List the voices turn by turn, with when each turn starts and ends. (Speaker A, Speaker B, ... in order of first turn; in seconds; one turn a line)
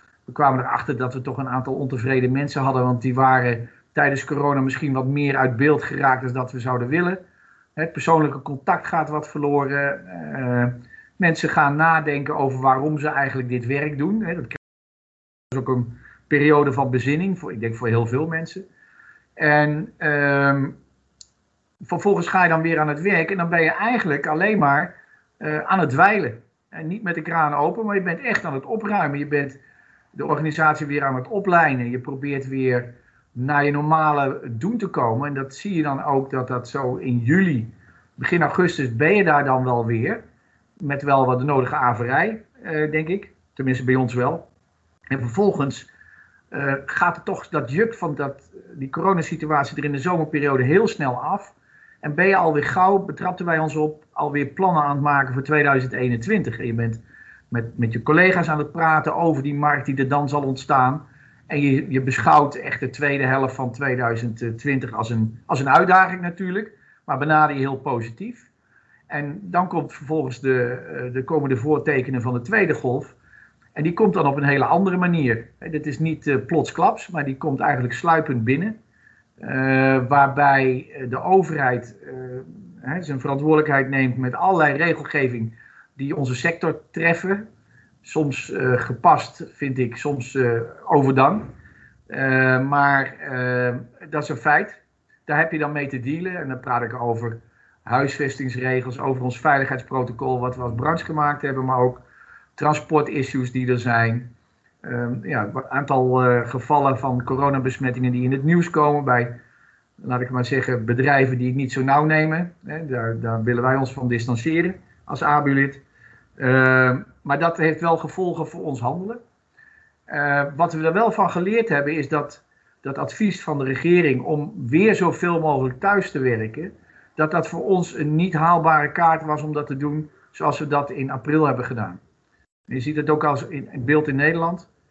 Speaker A: 0.3-7.2
Speaker A: 7.8-14.6
Speaker A: 15.5-18.6
Speaker A: 19.4-20.8
Speaker A: 21.8-29.6
Speaker A: 30.1-40.2
Speaker A: 40.8-44.5
Speaker A: 45.1-45.9
Speaker A: 46.5-68.5
Speaker A: 69.1-73.2
Speaker A: 73.8-78.8
Speaker A: 79.4-87.5
Speaker A: 88.0-91.5
Speaker A: 92.1-102.0
Speaker A: 102.6-104.3
Speaker A: 104.8-109.4
Speaker A: 110.0-115.8
Speaker A: 116.4-119.2
Speaker A: 120.1-132.0
Speaker A: 132.7-134.7